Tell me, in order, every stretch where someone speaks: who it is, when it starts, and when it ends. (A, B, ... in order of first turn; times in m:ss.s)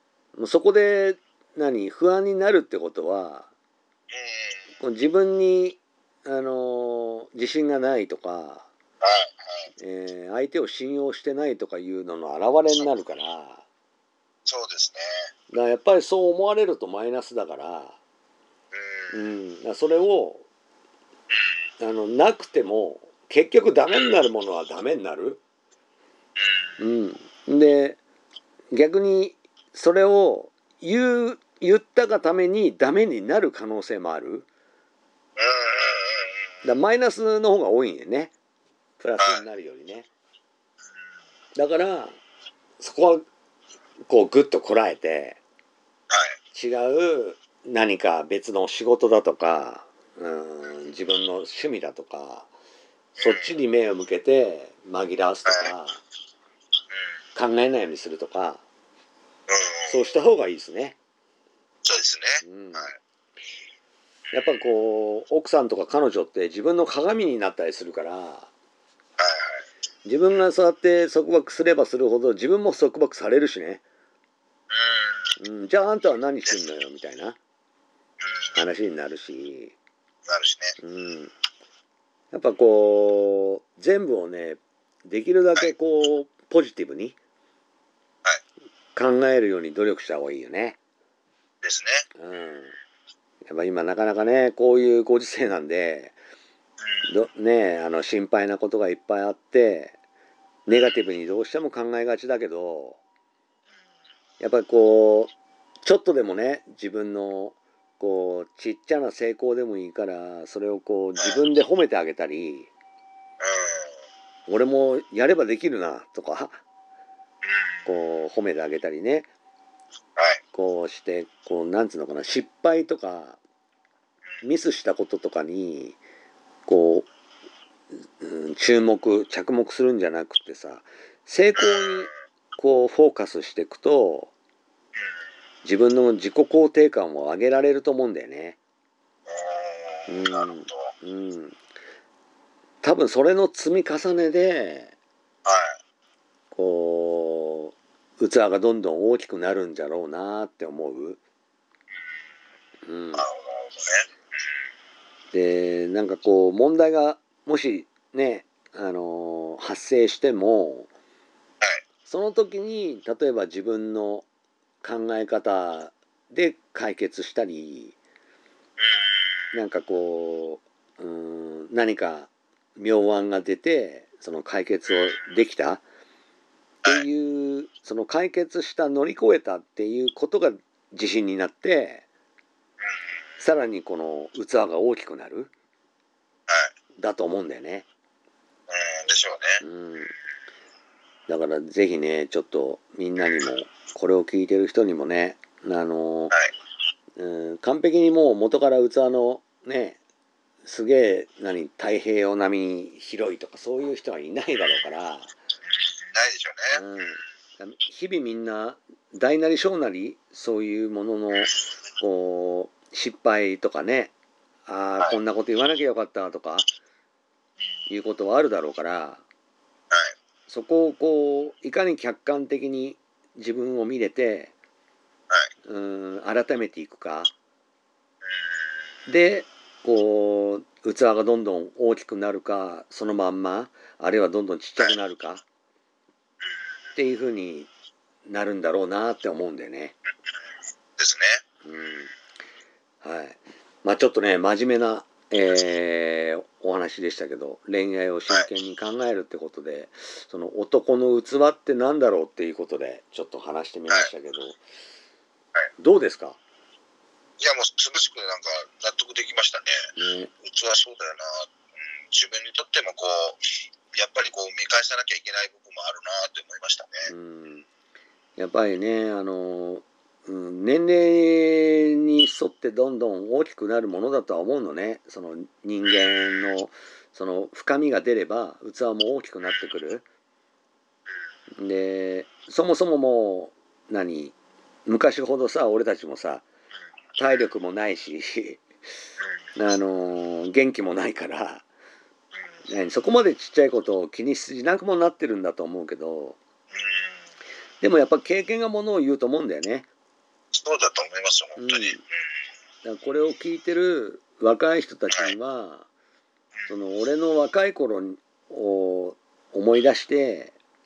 0:00.4-0:03.5 A
0:04.1-0:04.7 B
0:04.8-0:08.7 A
0:09.0-0:09.7 B
0:09.8-0:13.6 A
0:14.4-0:15.1 B
0:15.5-0:18.0 A
0:18.7-0:19.2 B
0:19.1-0:20.4 A
0:21.8-0:25.4 A
0:26.4-0:26.7 B
0:26.8-0:28.0 A
0:28.7-0:34.5 A
0:35.4-0:36.4 B
0:36.6-0:38.3 A
0:39.0-0:40.1 A
0:39.2-0:39.4 B
0:41.6-0:42.2 A
0:42.8-0:43.2 A
0:44.0-0:45.4 A
0:46.1-0:46.4 B
0:46.5-0:52.5 A
0:53.2-0:53.5 B
0:53.2-0:56.0 A
0:57.3-0:58.6 A
0:59.5-1:00.1 B
0:59.9-1:01.0 A
1:01.8-1:03.0 B
1:02.4-1:02.9 A
1:04.3-1:08.5 A
1:09.2-1:09.6 B
1:10.0-1:13.8 A
1:14.7-1:15.3 B
1:15.4-1:17.4 A
1:18.2-1:18.6 B
1:18.6-1:19.8 A
1:20.2-1:20.7 B
1:20.8-1:21.3 A
1:22.3-1:27.2 A
1:28.9-1:30.8 A
1:31.6-1:32.0 B
1:32.2-1:32.8 A
1:33.4-1:36.2 A
1:36.8-1:37.1 B
1:37.1-1:39.9 A
1:40.7-1:43.0 A
1:44.4-1:45.3 A
1:45.8-1:52.7 A
1:53.4-1:53.9 B
1:54.5-1:56.6 A
1:57.4-1:57.9 B
1:57.9-1:59.3 A
2:00.5-2:03.4 A
2:04.4-2:06.0 A
2:06.7-2:07.1 A
2:08.2-2:14.3 A
2:11.6-2:12.1 B
2:15.6-2:18.6 A
2:19.3-2:20.9 B
2:20.1-2:21.6 A
2:22.8-2:24.9 A
2:25.4-2:25.8 B
2:26.5-2:31.2 A
2:32.8-2:33.2 A
2:33.2-2:34.1 B
2:35.3-2:40.9 A
2:42.0-2:44.3 A
2:44.8-2:48.0 A
2:48.8-2:49.2 B
2:49.5-2:55.8 A
2:56.8-3:02.0 A
3:03.4-3:05.5 A
3:07.0-3:07.9 A
3:08.7-3:09.6 B
3:09.6-3:10.1 A
3:11.3-3:16.4 A
3:17.2-3:20.0 A
3:20.6-3:25.3 A
3:25.7-3:26.8 B
3:26.7-3:34.1 A
3:34.6-3:36.7 A
3:37.9-3:39.2 A
3:40.5-3:44.5 A
3:45.6-3:47.3 A
3:49.1-3:55.4 A
3:57.0-3:57.7 A
3:58.2-4:00.0 A
4:01.0-4:01.4 B
4:01.6-4:02.1 A
4:03.0-4:14.6 A
4:15.8-4:16.4 A
4:17.4-4:19.8 B
4:20.0-4:20.3 A
4:20.4-4:21.5 B
4:22.1-4:27.0 B
4:27.0-4:27.7 A
4:28.4-4:40.0 A
4:41.6-4:44.3 A
4:44.8-4:46.4 A
4:47.2-4:48.6 A
4:49.6-4:51.6 A
4:52.7-4:56.4 A
4:56.7-4:57.2 B
4:57.8-4:59.9 A
5:00.5-5:02.0 B
5:01.6-5:02.0 A
5:02.8-5:05.9 A
5:06.7-5:10.5 A